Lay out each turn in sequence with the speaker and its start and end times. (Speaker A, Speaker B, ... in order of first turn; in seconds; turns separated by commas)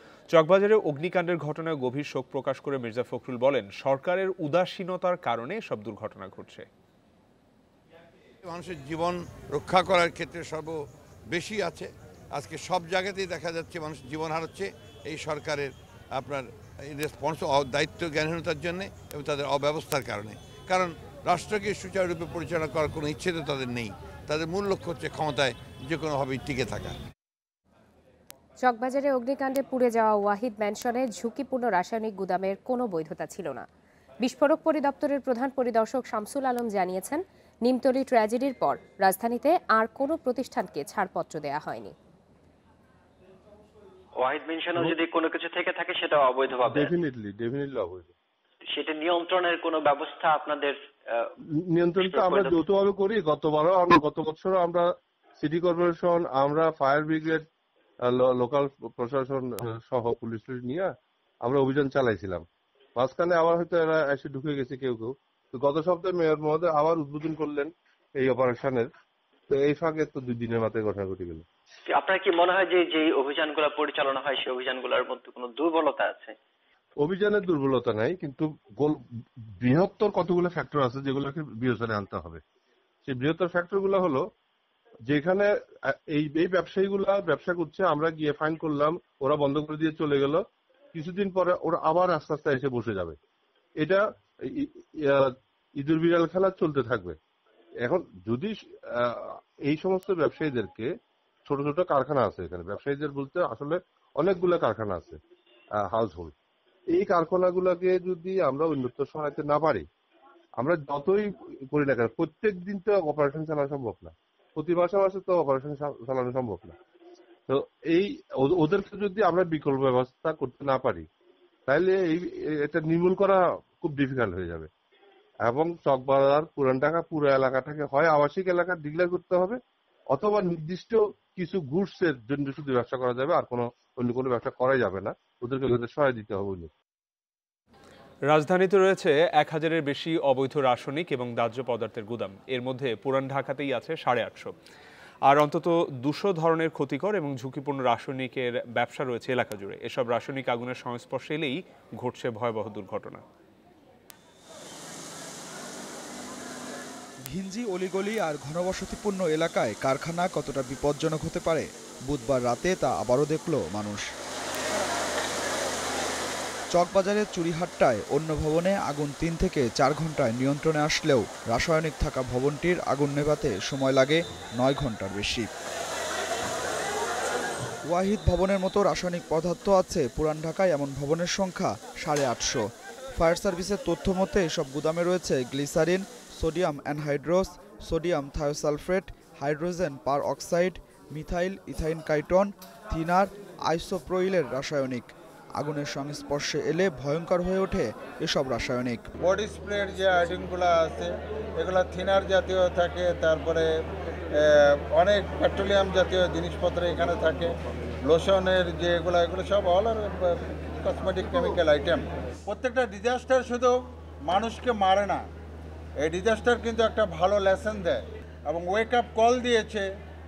Speaker A: 0.3-6.7, Speaker B: 8.4-26.9, Speaker C: 28.6-33.6, Speaker C: 34.2-41.9, Speaker D: 44.2-46.9, Speaker E: 46.7-48.1, Speaker D: 48.7-51.3, Speaker E: 51.7-54.9, Speaker D: 52.0-52.5, Speaker E: 55.4-57.4, Speaker E: 58.1-60.9, Speaker E: 61.4-62.4, Speaker E: 63.0-68.9, Speaker E: 69.5-71.4, Speaker D: 71.9-76.3, Speaker E: 77.0-79.0, Speaker E: 79.6-82.4, Speaker E: 83.0-84.2, Speaker E: 85.1-90.4, Speaker E: 90.9-93.2, Speaker E: 93.8-97.2, Speaker E: 97.8-100.9, Speaker E: 101.5-105.2, Speaker E: 105.9-106.3, Speaker E: 106.9-109.8, Speaker E: 110.6-116.7, Speaker E: 117.5-121.0, Speaker E: 121.7-124.7, Speaker E: 125.4-129.6, Speaker E: 130.1-136.7, Speaker A: 138.3-144.5, Speaker A: 145.3-153.2, Speaker F: 157.3-164.0, Speaker F: 166.7-175.5, Speaker F: 177.9-199.0, Speaker G: 199.2-203.7, Speaker G: 204.3-207.5, Speaker G: 208.0-213.8, Speaker G: 214.3-215.2, Speaker G: 216.0-219.8